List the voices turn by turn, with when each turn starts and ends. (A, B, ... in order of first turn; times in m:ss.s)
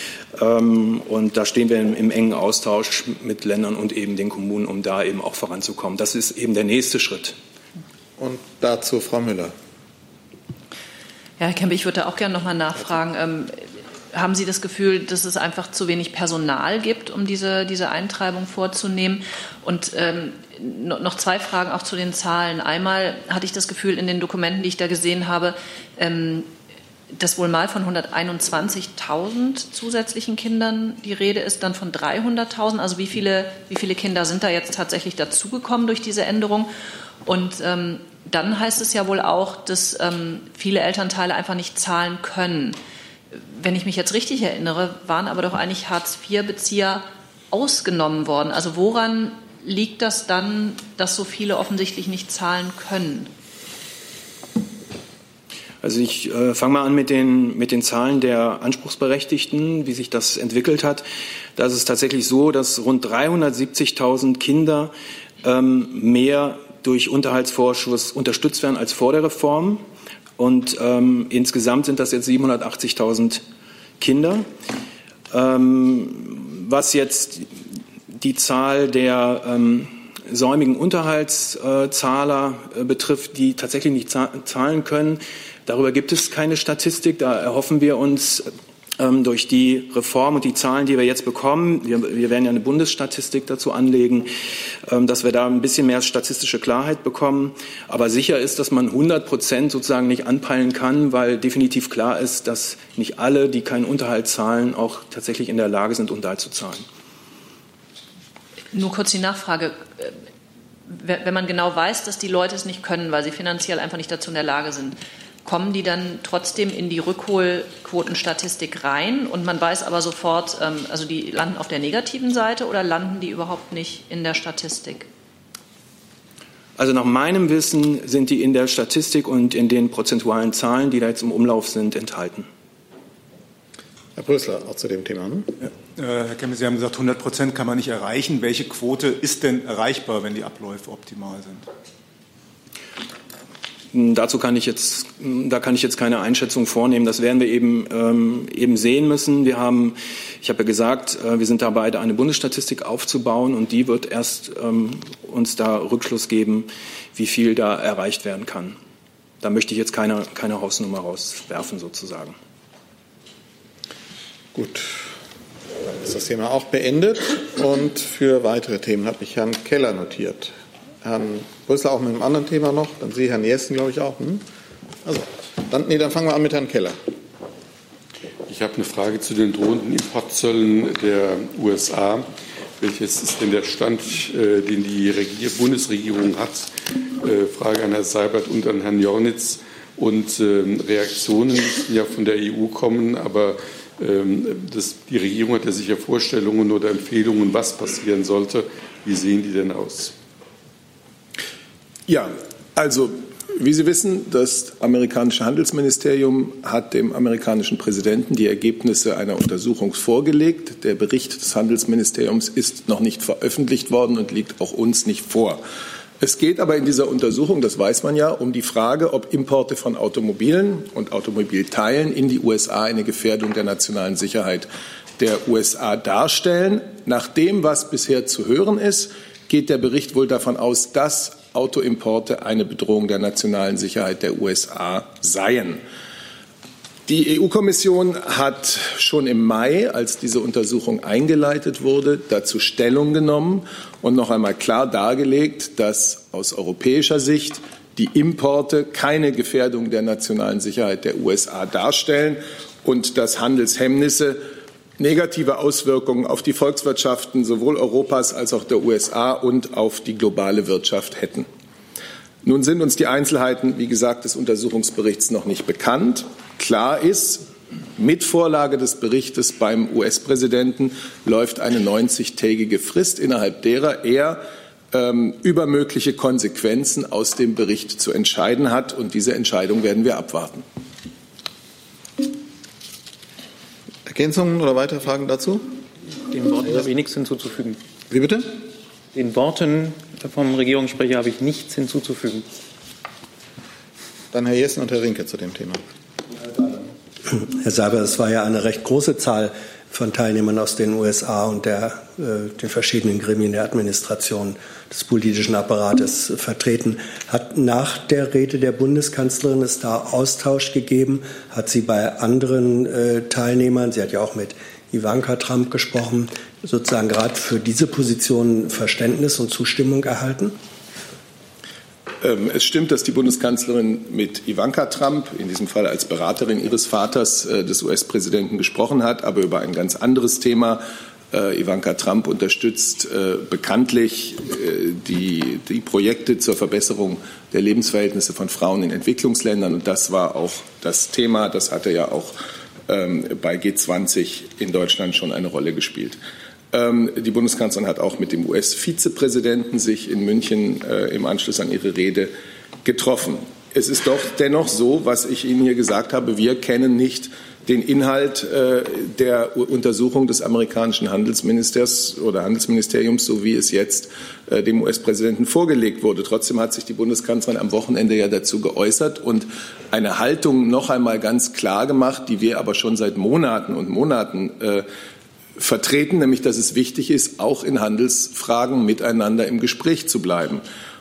0:00.4-0:07.4 A
0:08.2-0:09.5 B
0:11.4-0:13.6 C
0:14.1-0:26.5 C
0:27.1-0:36.7 C
0:37.2-0:42.8 C
0:43.6-0:53.3 C
0:55.8-1:09.8 A
1:10.4-1:13.4 A
1:14.0-1:14.5 A
1:15.3-1:17.5 A
1:18.1-1:34.3 A
1:34.8-1:46.8 A
1:48.7-1:50.1 C
1:50.9-2:05.1 C
2:06.8-2:12.5 A
2:14.2-2:15.5 B
2:15.6-2:21.7 D
2:23.9-2:38.8 A
2:39.4-2:42.4 A
2:44.5-2:45.1 B
2:45.9-2:54.4 B
2:55.0-2:57.0 B
2:58.5-3:20.2 E
3:22.1-3:35.6 F
3:36.2-3:55.8 F
3:57.1-4:14.4 F
4:15.0-4:21.5 F
4:22.4-4:40.6 F
4:44.1-4:45.7 B
4:46.3-4:47.8 G
4:48.1-4:48.5 B
4:49.1-4:52.5 G
4:54.3-4:55.8 B
4:57.3-5:20.5 H
5:22.2-5:42.4 F
5:42.9-5:46.2 F
5:46.7-5:52.3 F
5:52.8-6:14.8 F
6:15.6-6:20.6 F